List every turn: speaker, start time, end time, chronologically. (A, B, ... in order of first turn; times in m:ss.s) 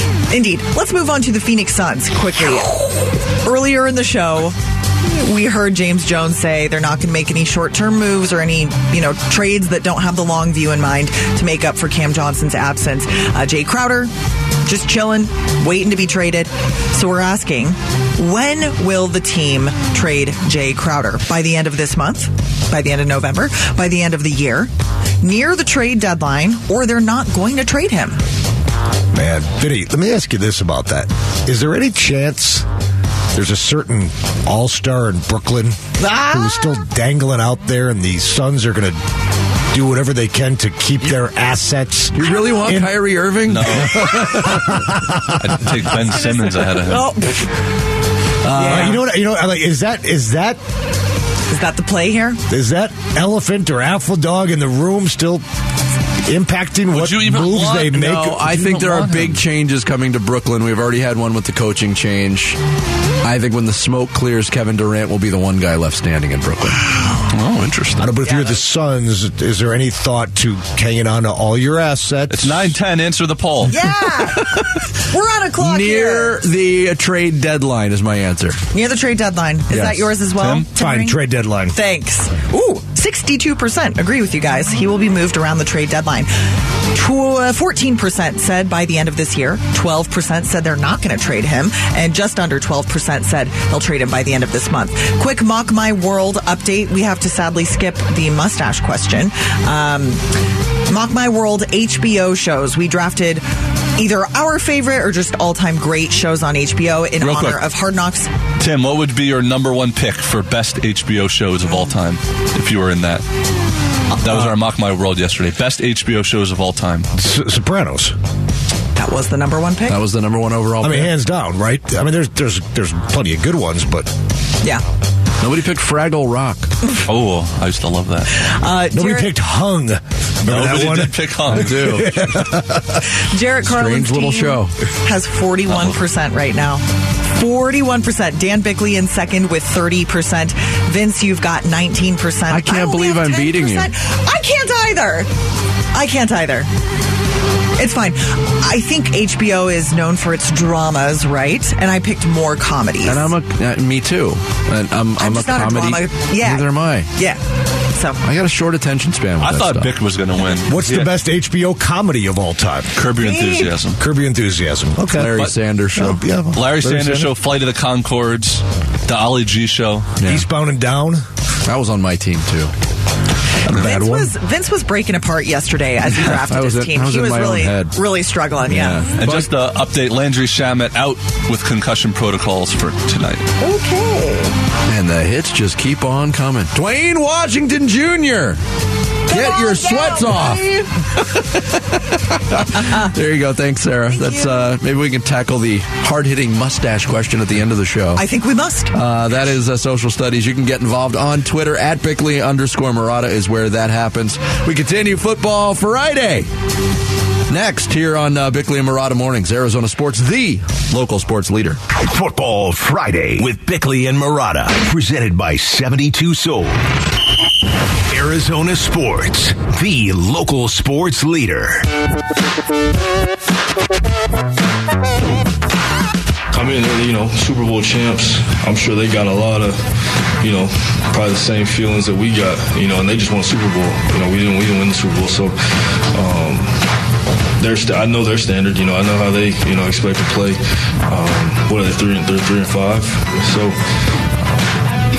0:00.3-0:14.1 A
0:14.6-0:24.7 A
0:25.2-0:28.2 A
0:29.1-0:32.7 B
0:33.3-0:39.0 B
0:39.7-0:45.8 B
0:42.2-0:44.2 C
0:43.5-0:44.8 D
0:45.3-0:47.1 D
0:46.1-0:47.5 A
0:48.4-0:49.0 C
0:48.5-0:49.0 A
0:48.6-0:50.6 B
0:51.5-0:52.4 A
0:52.5-0:55.4 B
0:56.2-0:58.4 B
0:56.9-0:59.4 D
0:57.9-1:02.6 C
1:03.2-1:07.2 C
1:07.3-1:08.1 D
1:08.0-1:12.7 B
1:08.2-1:08.6 A
1:12.3-1:13.8 D
1:13.7-1:16.4 A
1:15.6-1:18.6 C
1:18.7-1:21.2 A
1:19.7-1:20.1 C
1:20.4-1:20.7 D
1:20.7-1:21.8 B
1:21.7-1:26.3 A
1:26.9-1:40.2 A
1:40.9-1:43.4 A
1:44.0-1:48.3 A
1:47.2-1:47.6 D
1:48.6-1:53.2 D
1:54.1-1:54.6 B
1:54.2-1:57.1 D
1:57.1-1:58.2 B
1:59.0-2:00.0 A
1:59.9-2:01.1 C
2:00.8-2:04.1 B
2:05.4-2:06.7 C
2:07.0-2:08.3 D
2:08.3-2:09.3 A
2:08.9-2:13.0 B
2:10.4-2:12.1 D
2:11.5-2:12.3 C
2:13.0-2:25.3 A
2:13.6-2:14.7 C
2:15.7-2:16.0 D
2:22.5-2:23.9 C
2:25.9-2:26.7 A
2:27.8-2:33.3 A
2:33.0-2:37.1 C
2:35.2-2:37.4 A
2:37.9-2:38.2 A
2:38.2-2:39.9 C
2:39.4-2:41.1 D
2:40.7-2:42.9 B
2:42.9-2:44.0 D
2:43.2-2:43.7 A
2:44.0-2:47.3 B
2:45.1-2:46.2 C
2:46.5-2:50.1 D
2:50.2-2:50.5 C
2:50.2-2:51.2 B
2:51.7-2:52.7 C
2:53.6-2:54.3 B
2:53.7-2:59.0 A
2:56.0-2:58.0 C
2:58.7-2:59.5 C
2:59.2-3:03.5 D
3:03.6-3:04.5 A
3:04.9-3:08.6 C
3:09.3-3:11.0 A
3:09.3-3:10.6 C
3:11.2-3:18.2 C
3:12.7-3:13.1 A
3:14.1-3:14.7 A
3:18.2-3:18.9 A
3:18.9-3:26.5 C
3:27.5-3:31.8 C
3:31.9-3:36.9 E
3:38.1-3:41.9 E
3:46.5-3:49.9 F
3:50.4-3:56.8 F
3:57.6-4:03.8 F